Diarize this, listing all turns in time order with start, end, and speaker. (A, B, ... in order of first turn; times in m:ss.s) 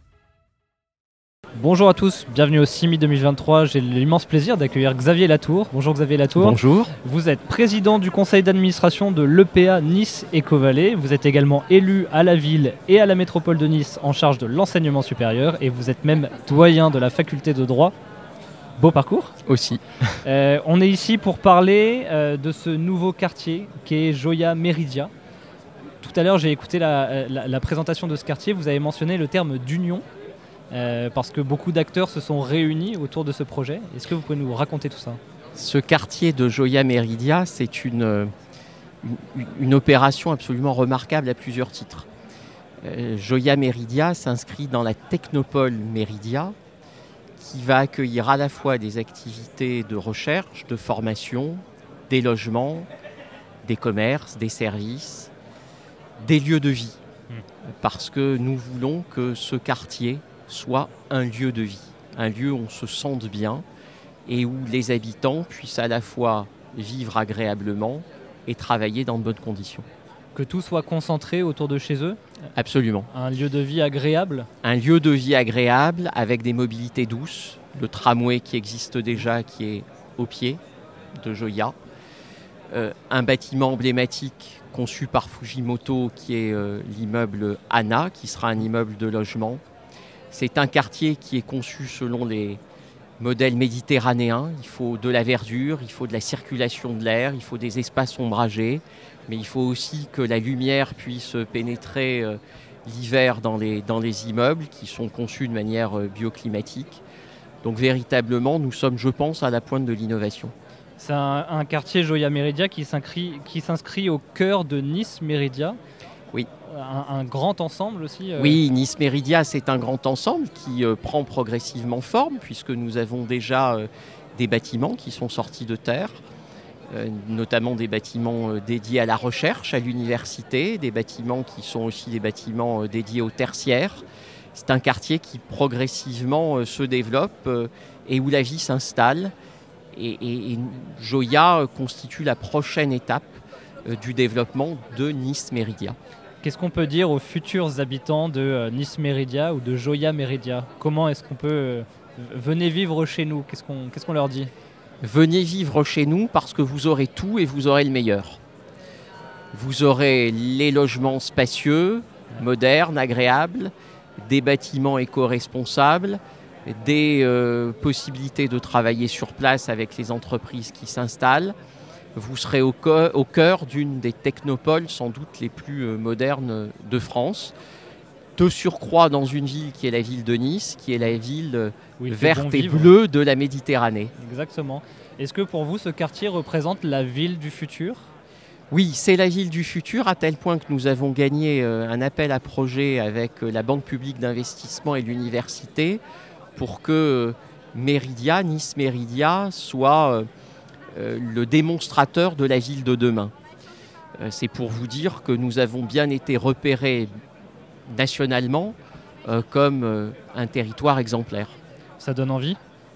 0:01.6-0:17.9 A
0:06.4-0:06.9 B
0:18.8-0:19.4 A
0:19.4-0:20.1 B
0:20.2-0:25.1 A
0:26.0-0:30.0 A
0:30.7-0:35.2 A
0:35.6-0:38.3 B
0:39.0-0:42.1 B
0:42.8-0:46.5 B
0:47.4-0:52.9 B
0:53.6-0:55.3 B
0:56.2-0:57.0 B
0:57.7-1:03.6 B
1:04.2-1:09.8 B
1:10.3-1:12.2 A
1:12.5-1:13.1 B
1:13.1-1:14.5 A
1:14.6-1:20.6 B
1:21.1-1:21.8 B
1:22.7-1:29.6 B
1:30.3-1:32.6 B
1:33.2-1:47.0 B
1:47.6-1:50.5 B
1:51.0-1:55.8 A
1:56.6-1:58.6 A
1:58.4-2:06.2 B
2:06.9-2:19.3 B
2:19.9-2:26.0 B
2:26.4-2:34.5 A
2:35.0-2:38.4 B
2:39.5-2:43.7 B
2:44.2-2:51.5 B
2:52.1-2:57.5 B
2:58.4-3:04.1 B
3:02.0-3:02.9 A
3:04.2-3:08.1 A
3:08.7-3:16.0 B
3:16.5-3:20.3 B
3:20.9-3:23.3 B
3:24.2-3:27.1 B
3:27.9-3:31.6 B
3:32.0-3:32.6 A